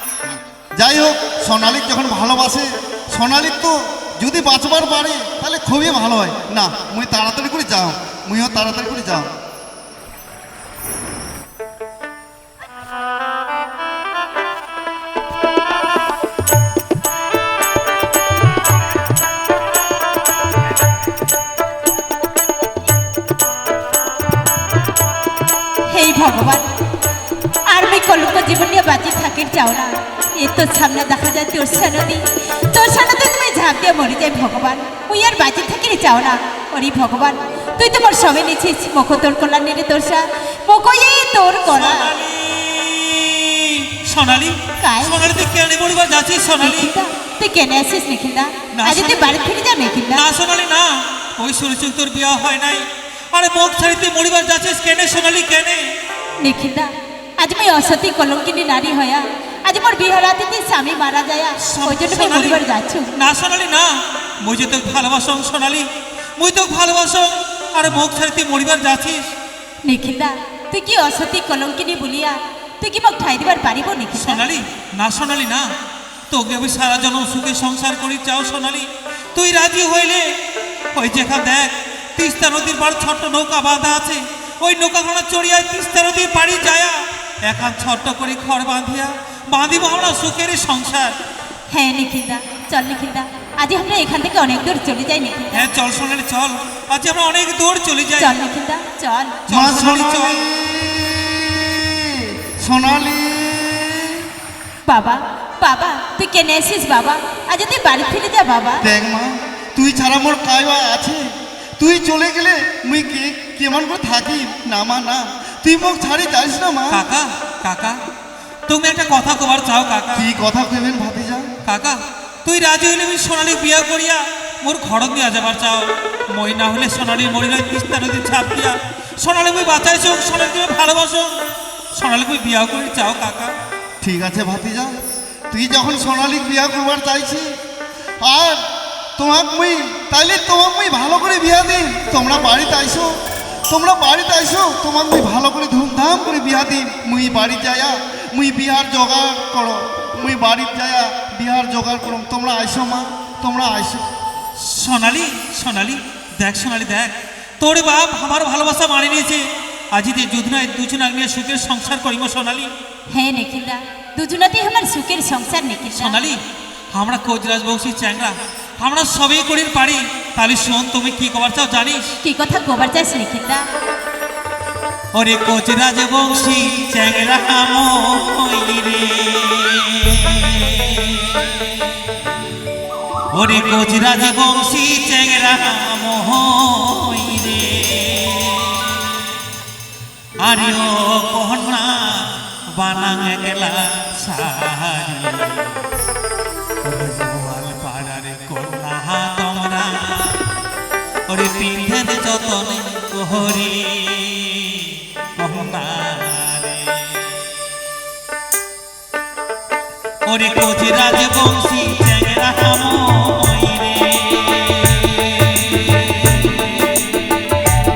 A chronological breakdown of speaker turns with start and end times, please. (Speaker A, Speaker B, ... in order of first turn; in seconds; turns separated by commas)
Speaker A: 0.7-9.3, Speaker B: 25.9-26.7, Speaker B: 27.7-42.1, Speaker C: 41.6-46.9, Speaker B: 44.8-45.2, Speaker B: 46.6-50.2, Speaker C: 48.7-49.4, Speaker C: 50.1-55.9, Speaker B: 56.4-63.1, Speaker C: 61.6-69.3, Speaker B: 69.8-74.4, Speaker C: 74.1-75.7, Speaker C: 76.3-80.3, Speaker C: 81.0-91.2, Speaker B: 91.7-95.7, Speaker C: 95.5-98.4, Speaker B: 98.2-99.4, Speaker C: 99.5-100.4, Speaker A: 99.5-104.3, Speaker B: 104.9-108.8, Speaker A: 108.8-117.0, Speaker C: 116.9-118.0, Speaker C: 118.7-120.3, Speaker A: 120.1-121.5, Speaker C: 121.7-131.4, Speaker C: 131.9-133.5, Speaker A: 134.0-137.6, Speaker A: 138.2-154.1, Speaker C: 154.6-162.7, Speaker B: 163.1-166.2, Speaker C: 165.9-166.4, Speaker C: 166.9-172.2, Speaker B: 172.2-173.7, Speaker C: 175.1-182.0, Speaker C: 183.3-189.2, Speaker C: 190.4-195.8, Speaker C: 196.8-200.4, Speaker C: 201.3-207.4, Speaker C: 210.2-217.7